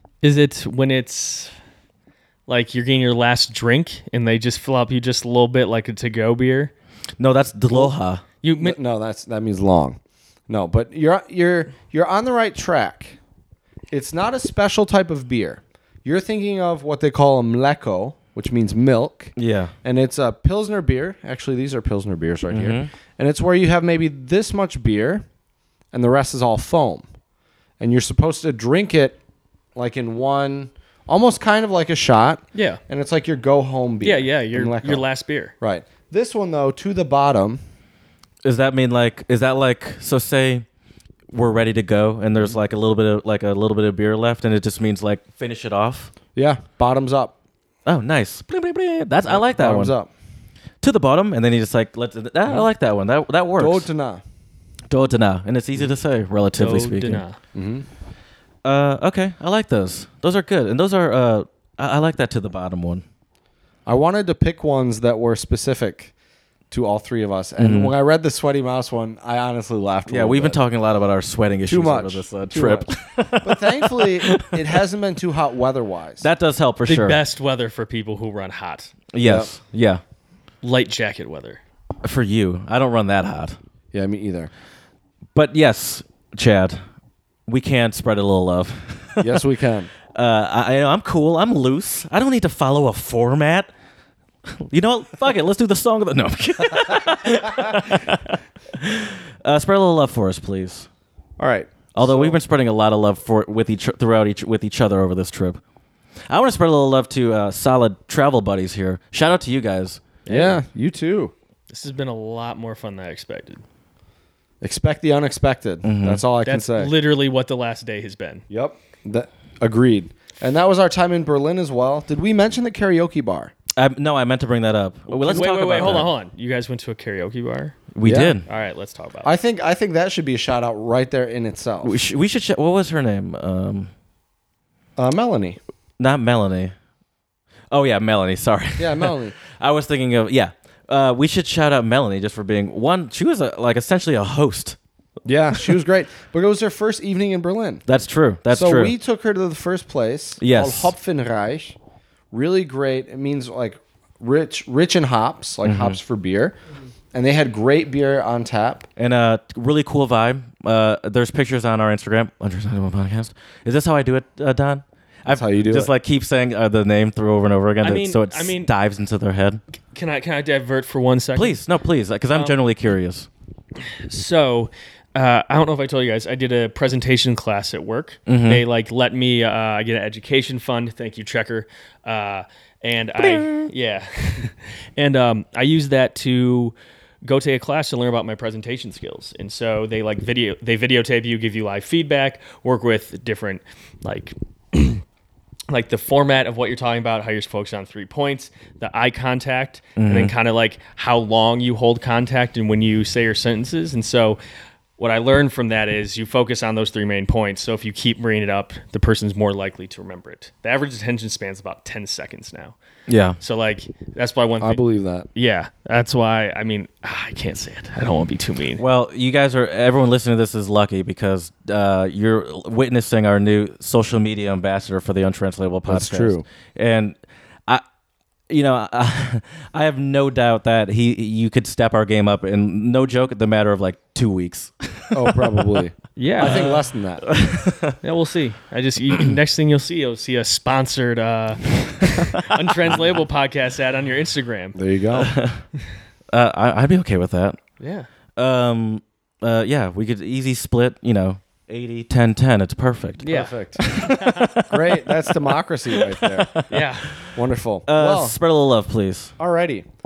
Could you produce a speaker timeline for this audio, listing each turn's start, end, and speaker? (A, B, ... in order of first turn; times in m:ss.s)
0:00.2-0:01.5 A
0:02.5-0:06.7 A
0:07.2-0:08.2 B
0:08.4-0:08.8 A
0:08.6-0:13.2 C
0:13.9-0:25.2 C
0:19.4-0:19.7 B
0:22.5-0:22.9 B
0:25.9-0:27.0 C
0:27.8-0:29.2 C
0:29.7-0:35.0 C
0:32.6-0:32.8 A
0:34.0-0:35.5 A
0:35.6-0:37.6 C
0:38.4-0:40.6 B
0:41.3-0:46.1 B
0:46.3-0:47.4 C
0:47.9-0:49.9 B
0:49.3-0:50.1 C
0:50.8-0:53.9 B
0:53.6-0:54.2 C
0:54.9-0:57.2 B
0:56.6-0:57.4 A
0:57.5-0:57.9 C
0:58.6-1:03.0 B
1:03.9-1:06.1 C
1:06.7-1:10.6 C
1:07.6-1:07.9 B
1:10.1-1:14.6 B
1:11.7-1:16.3 C
1:16.2-1:17.2 B
1:16.9-1:18.9 A
1:19.1-1:20.0 B
1:19.2-1:19.5 C
1:20.6-1:21.6 A
1:22.0-1:23.6 B
1:23.9-1:24.5 C
1:25.3-1:26.8 B
1:27.5-1:29.4 B
1:29.2-1:29.9 C
1:30.1-1:33.7 B
1:34.6-1:40.9 B
1:41.4-1:42.3 C
1:41.9-1:45.6 B
1:46.3-1:50.0 B
1:50.2-1:50.6 A
1:50.3-1:51.3 C
1:51.7-1:53.6 A
1:54.6-1:56.9 C
1:55.8-1:56.2 B
1:56.4-1:58.4 A
1:58.5-2:03.5 C
2:03.7-2:06.1 B
2:05.1-2:07.8 A
2:05.3-2:06.0 C
2:07.9-2:08.4 B
2:08.0-2:08.4 C
2:08.4-2:09.3 A
2:09.2-2:12.0 C
2:11.8-2:13.9 B
2:15.0-2:15.6 C
2:16.0-2:16.7 B
2:17.7-2:24.8 B
2:18.8-2:19.3 C
2:25.2-2:27.8 C
2:27.9-2:28.9 B
2:28.5-2:31.8 C
2:30.4-2:30.9 B
2:32.3-2:36.6 C
2:35.6-2:36.0 B
2:37.1-2:38.9 C
2:39.0-2:49.6 B
2:45.3-2:45.9 C
2:47.8-2:48.7 A
2:49.9-2:51.6 A
2:51.4-2:53.3 B
2:53.9-3:15.0 A
2:58.3-2:58.6 B
3:03.2-3:03.7 B
3:15.7-3:24.4 A
3:20.0-3:20.3 B
3:25.0-3:32.8 A
3:33.1-3:33.4 B
3:33.4-3:34.8 A
3:34.6-3:35.3 C
3:35.3-3:38.8 A
3:38.8-3:47.8 B
3:45.9-3:46.4 C
3:48.5-3:55.8 B
3:55.1-3:57.3 C
3:56.2-3:56.8 A
3:56.4-3:58.0 B
3:58.0-4:04.8 A
4:04.7-4:05.3 C
4:05.1-4:05.6 B
4:06.3-4:07.6 B
4:07.8-4:08.1 A
4:08.4-4:14.9 B
4:13.2-4:14.5 A
4:13.3-4:13.9 C
4:14.6-4:16.6 C
4:15.9-4:19.3 B
4:16.7-4:17.2 A
4:17.2-4:18.4 C
4:19.4-4:19.9 C